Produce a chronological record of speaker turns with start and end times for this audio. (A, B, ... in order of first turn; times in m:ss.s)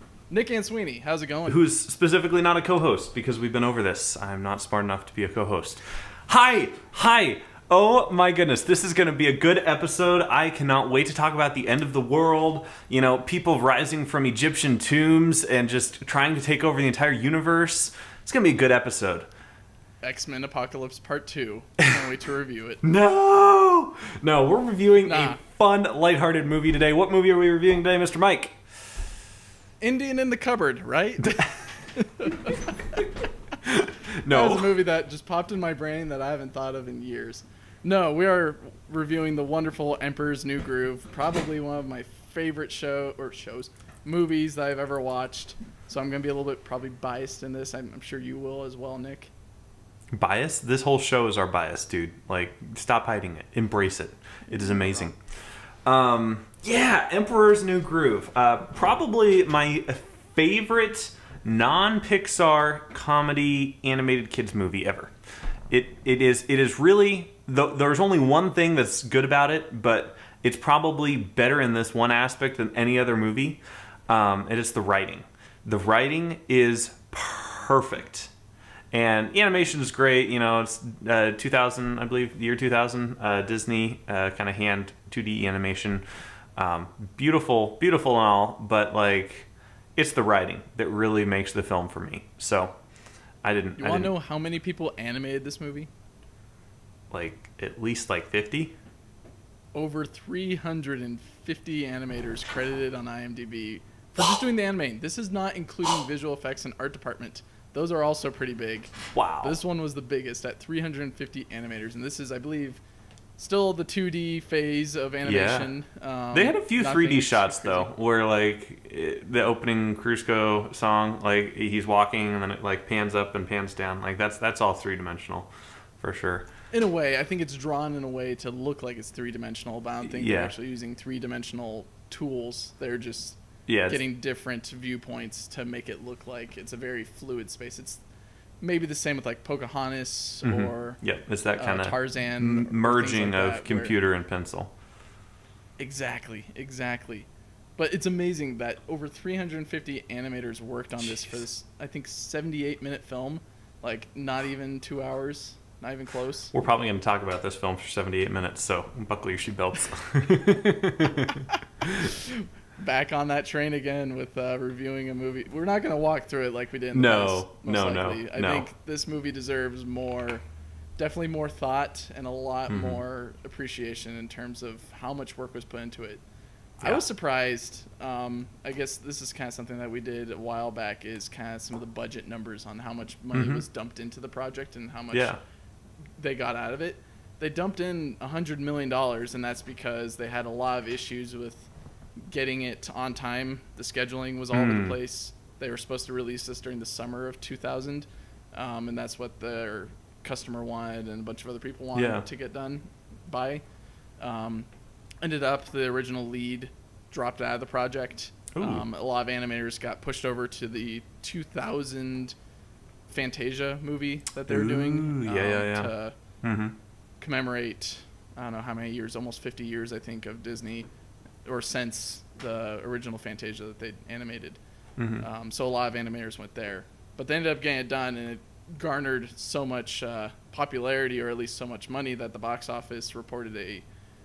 0:00.3-0:01.6 A
0:01.5-0:19.3 B
0:20.0-0:22.8 A
0:22.8-0:28.6 B
0:25.0-0:25.4 A
0:29.8-0:33.1 A
0:33.6-0:34.7 B
0:34.2-0:49.3 A
0:50.2-1:05.1 B
0:54.5-0:55.0 A
1:05.7-1:18.3 B
1:18.9-1:26.0 B
1:26.6-1:32.8 B
1:33.4-1:34.1 B
1:33.8-1:35.9 A
1:37.1-1:38.8 B
1:39.7-1:52.8 A
1:49.1-1:49.6 B
1:53.4-1:57.9 A
1:55.2-1:55.7 B
1:56.3-2:06.5 B
2:06.7-2:18.0 A
2:10.0-2:10.5 B
2:13.7-2:14.0 B
2:18.6-2:21.0 A
2:20.4-2:24.7 B
2:21.6-2:23.9 A
2:25.8-2:27.3 A
2:27.8-2:36.5 A
2:36.5-2:42.1 B
2:42.1-2:50.4 A
2:46.9-2:48.7 B
2:51.0-2:56.2 A
2:52.7-2:53.0 B
2:56.8-3:05.4 A
3:03.3-3:03.6 B
3:05.1-3:05.4 B
3:06.2-3:23.6 A
3:14.5-3:15.0 B
3:21.9-3:22.2 B
3:24.2-3:24.7 A
3:25.2-3:32.3 A
3:28.5-3:28.8 B
3:33.1-3:36.1 A
3:34.5-3:35.9 B
3:36.4-3:36.8 B
3:37.2-3:40.9 A
3:41.4-3:44.6 A
3:45.0-3:45.2 B
3:45.2-3:53.8 A